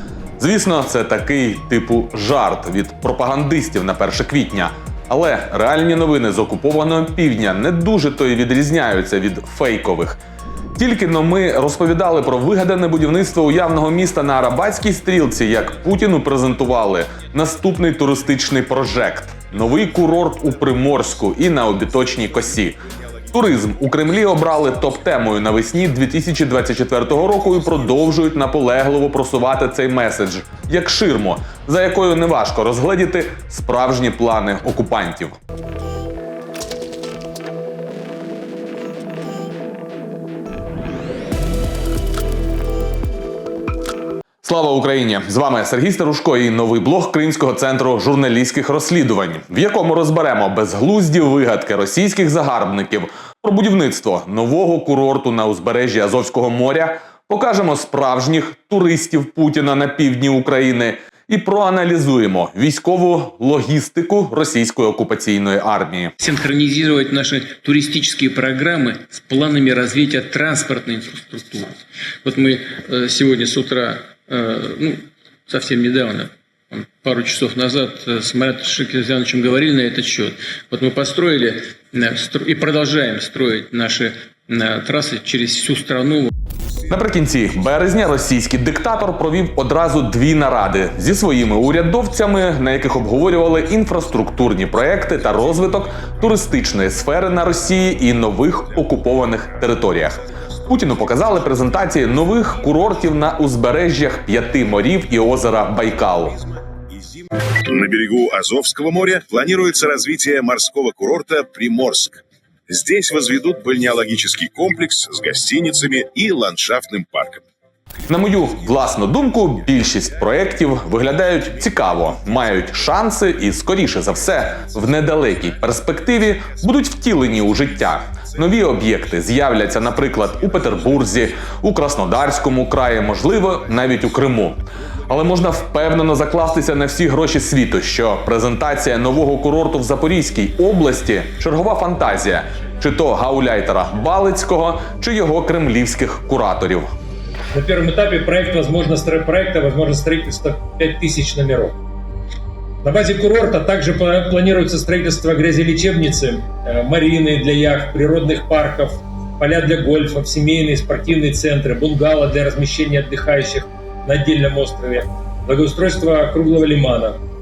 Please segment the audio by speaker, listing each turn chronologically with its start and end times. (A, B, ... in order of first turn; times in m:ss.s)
0:00.4-0:10.2 A
0:10.8-0:22.8 A
0:23.3-0:35.4 A
0:44.4-1:06.1 A
1:06.2-1:26.3 B
1:26.9-1:46.4 A
1:47.6-1:57.4 C
1:58.1-2:26.9 A
2:10.1-2:11.1 C
2:27.5-2:31.8 D
2:32.8-2:47.2 D